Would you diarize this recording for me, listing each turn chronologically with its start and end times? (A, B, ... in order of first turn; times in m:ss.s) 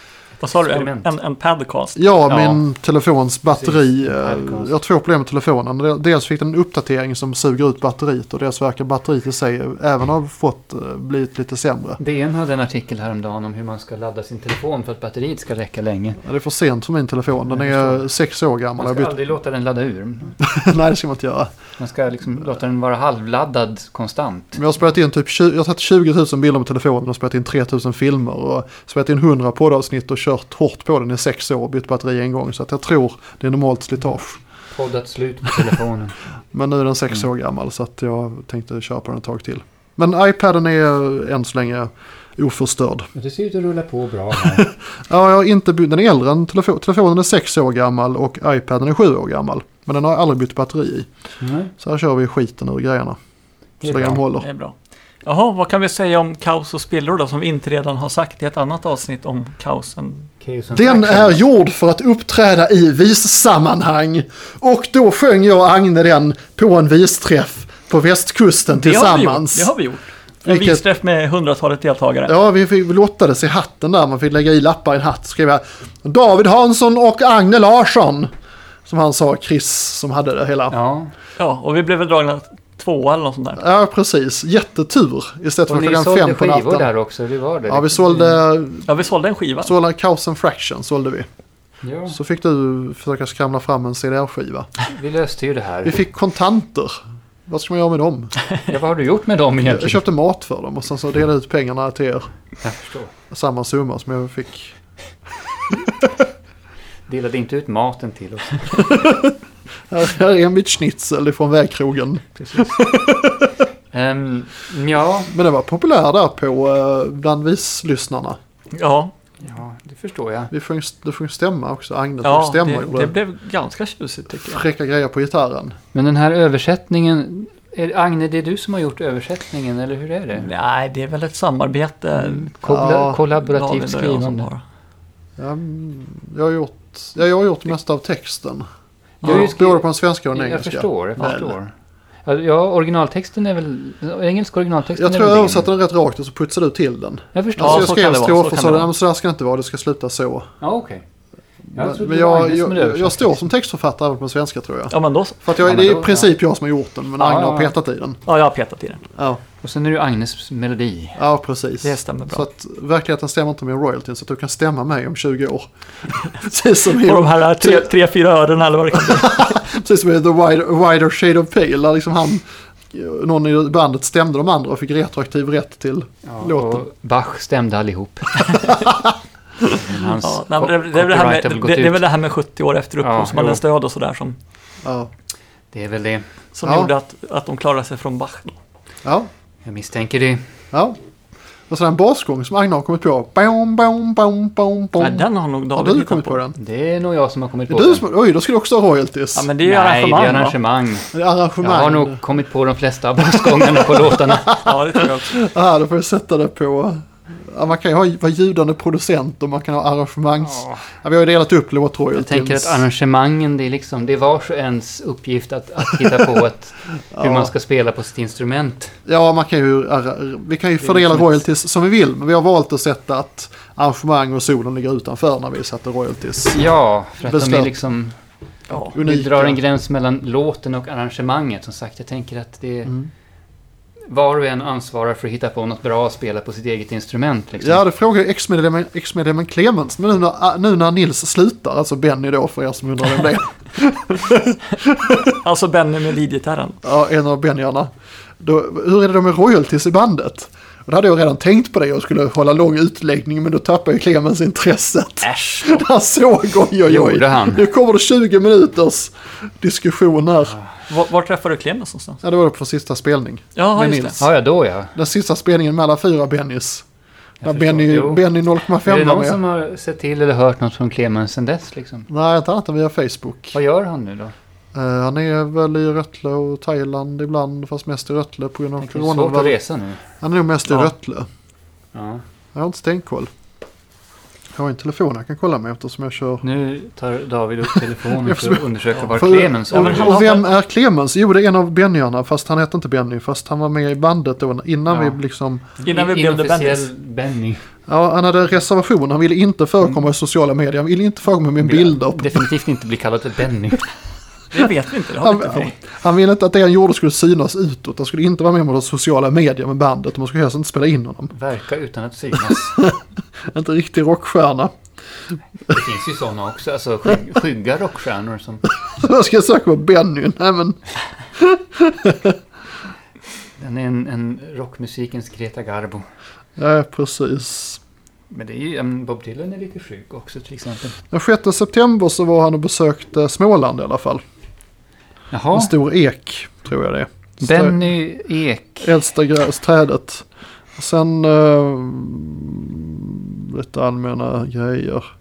0:00.4-0:02.0 A
0:00.6-0:01.1 B
0:02.0-0:12.0 C
0:02.3-0:02.6 B
0:03.5-0:04.7 B
0:12.0-0:16.2 B
0:16.2-0:19.1 C
0:17.5-0:18.0 B
0:18.8-0:20.4 B
0:20.4-0:21.5 C
0:21.8-0:24.6 B
0:24.6-0:34.4 C
0:34.7-0:36.2 B
0:36.5-0:43.1 C
0:43.1-0:44.7 B
0:44.6-0:51.1 C
0:51.4-0:51.7 B
0:51.8-0:53.2 C
0:53.8-0:54.2 B
0:53.8-0:54.5 C
0:54.4-0:54.7 A
0:55.2-1:00.3 A
1:00.4-1:01.4 B
1:00.7-1:09.7 C
1:08.7-1:12.3 A
1:10.4-1:10.8 C
1:12.3-1:18.3 C
1:18.9-1:20.8 C
1:20.7-1:21.1 B
1:21.4-1:23.6 A
1:23.6-1:26.9 C
1:25.7-1:28.4 B
1:27.7-1:28.9 C
1:28.9-1:29.7 A
1:29.6-1:31.3 C
1:31.8-1:32.2 B
1:32.1-1:34.7 C
1:34.8-1:36.0 B
1:35.8-1:38.3 C
1:38.7-1:40.0 B
1:39.6-1:42.3 C
1:42.6-1:43.1 B
1:43.3-1:44.8 C
1:47.1-1:49.0 B
1:48.9-1:49.3 C
1:49.9-1:53.6 C
1:52.4-1:52.8 B
1:53.9-1:55.3 B
1:55.3-1:58.4 C
1:58.7-1:59.1 A
1:59.4-2:00.5 B
2:00.5-2:03.1 C
2:02.2-2:04.6 A
2:04.5-2:05.8 C
2:05.9-2:10.5 B
2:10.4-2:12.6 A
2:12.2-2:14.5 B
2:12.7-2:13.2 C
2:13.4-2:14.6 A
2:15.4-2:18.7 C
2:19.2-2:21.6 C
2:19.2-2:21.7 B
2:22.2-2:25.7 B
2:25.0-2:30.5 C
2:27.4-2:28.0 B
2:27.6-2:28.9 A
2:30.6-2:31.0 B
2:31.7-2:38.2 C
2:31.8-2:33.5 B
2:34.9-2:35.4 A
2:35.6-2:36.4 B
2:37.2-2:37.8 B
2:38.3-2:39.0 A
2:39.6-2:41.2 B
2:41.2-2:45.7 C
2:41.8-2:42.4 A
2:46.2-2:47.9 C
2:46.9-2:49.6 A
2:48.9-2:56.9 C
2:56.2-2:58.3 B
2:58.5-2:59.9 C
2:59.8-3:02.0 B
3:00.2-3:04.4 A
3:03.0-3:03.6 B
3:04.8-3:05.1 C
3:05.7-3:06.3 B
3:06.6-3:08.6 A
3:06.7-3:06.9 C
3:09.6-3:10.4 B
3:10.7-3:11.0 C
3:11.7-3:16.6 C
3:15.0-3:16.4 A
3:16.6-3:18.0 B
3:17.7-3:19.5 C
3:19.4-3:20.6 A
3:19.6-3:24.6 B
3:21.1-3:22.2 C
3:23.7-3:32.8 C
3:24.6-3:25.4 A
3:30.4-3:30.8 B
3:32.1-3:38.9 B
3:37.1-3:37.5 C
3:39.1-3:46.7 C
3:40.8-3:41.4 B
3:46.5-3:48.2 B
3:47.2-3:47.7 C
3:48.7-3:49.0 A
3:48.8-3:49.6 C
3:49.0-3:52.9 B
3:54.1-3:57.8 B
3:57.6-4:05.4 C
4:05.3-4:06.8 A
4:06.8-4:07.9 C
4:08.4-4:20.6 C
4:15.2-4:15.8 B
4:16.8-4:17.7 B
4:20.9-4:22.2 A
4:22.2-4:24.3 C
4:23.6-4:24.2 A
4:24.2-4:25.0 B
4:25.0-4:26.8 C
4:27.4-4:28.2 B
4:27.4-4:29.4 C
4:28.8-4:32.1 B
4:32.1-4:33.6 C
4:33.5-4:34.4 B
4:34.8-4:39.6 C
4:38.8-4:40.0 B
4:40.2-4:41.3 C
4:41.9-4:42.2 B
4:42.6-4:43.3 C
4:44.6-4:46.4 C
4:46.4-4:50.2 B
4:48.1-4:55.6 C
4:49.7-4:50.5 A
4:54.9-4:55.2 B
4:55.8-4:57.6 B
4:55.8-4:56.9 A
4:57.9-5:02.4 C
5:01.6-5:03.9 B
5:04.5-5:05.8 A
5:05.2-5:11.3 C
5:11.3-5:12.8 B
5:13.5-5:14.7 C
5:15.7-5:18.6 B
5:18.9-5:20.8 C
5:21.4-5:22.4 C
5:23.6-5:26.0 B
5:26.6-5:27.8 C
5:28.3-5:31.0 B
5:31.1-5:34.2 C
5:35.3-5:35.7 B
5:35.5-5:37.8 C
5:37.4-5:38.9 B
5:38.8-5:40.3 C
5:40.8-5:45.1 C